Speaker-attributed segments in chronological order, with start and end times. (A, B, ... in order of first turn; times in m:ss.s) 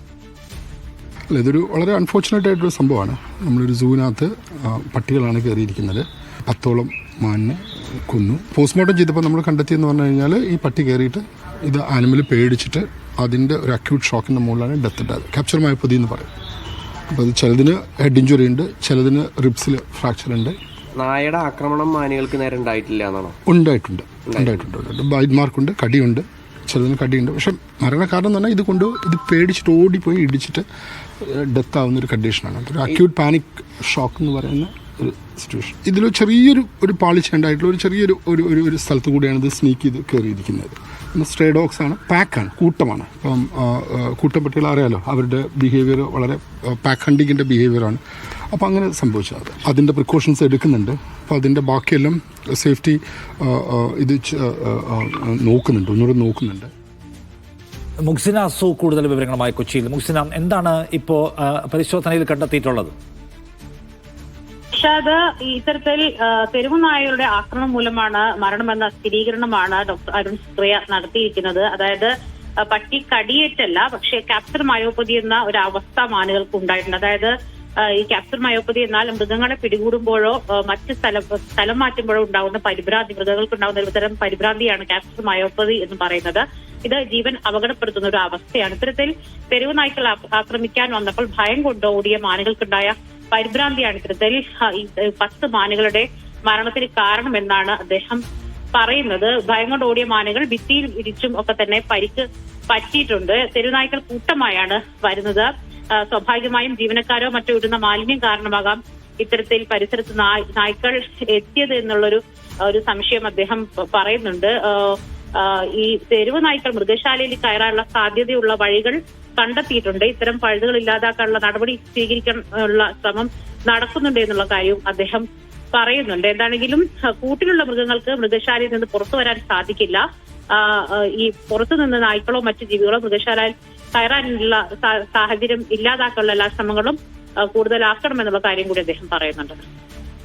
0:01.3-0:16.3 A
0:17.1-0:20.6 A
0:21.0-0:23.4 B
0:23.5-0:30.6 A
0:24.3-0:24.6 B
0:31.2-0:48.0 A
0:48.5-0:56.7 A
0:58.0-1:02.9 C
1:04.8-1:12.1 D
1:12.6-1:17.3 D
1:17.8-1:38.2 D
1:38.8-2:19.6 D